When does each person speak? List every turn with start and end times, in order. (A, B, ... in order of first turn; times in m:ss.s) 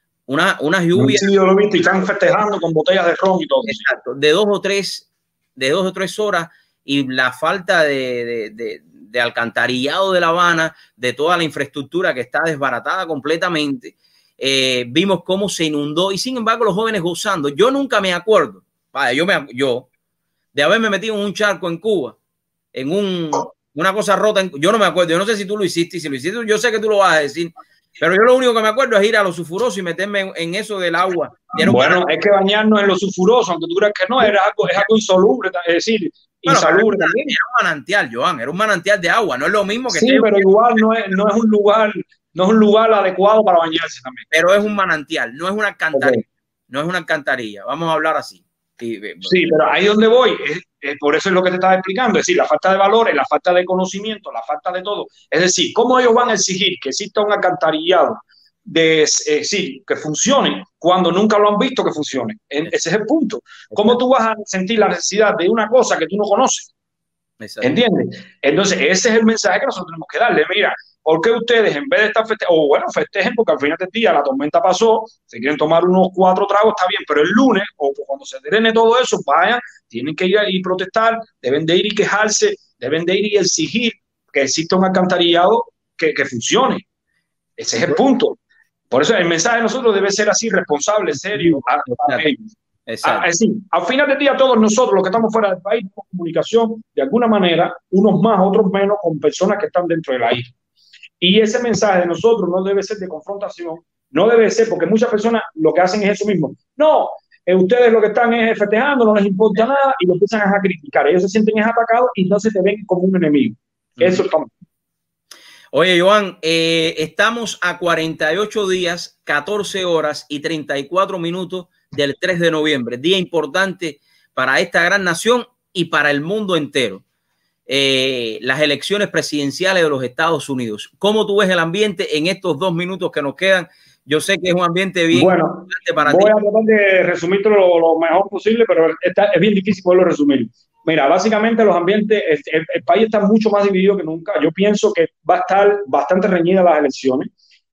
0:00.3-0:01.3 A
0:01.0-0:03.8 B
0:03.7-0:19.9 A
0:20.5-0:22.2 A
0:22.7-0:32.0 A
0:31.6-0:37.3 B
0:36.5-0:40.8 A
0:39.9-0:44.2 B
0:44.3-0:49.5 A
0:45.9-0:46.2 B
0:49.2-1:06.7 B
1:07.4-1:07.8 A
1:07.6-1:26.8 B
1:27.6-1:28.4 B
1:28.9-1:32.4 B
1:31.3-1:32.2 A
1:32.9-1:33.2 A
1:33.0-1:40.5 B
1:41.2-1:54.5 B
1:54.0-1:54.2 A
1:55.7-2:07.0 A
2:07.7-2:16.3 A
2:15.1-2:27.3 B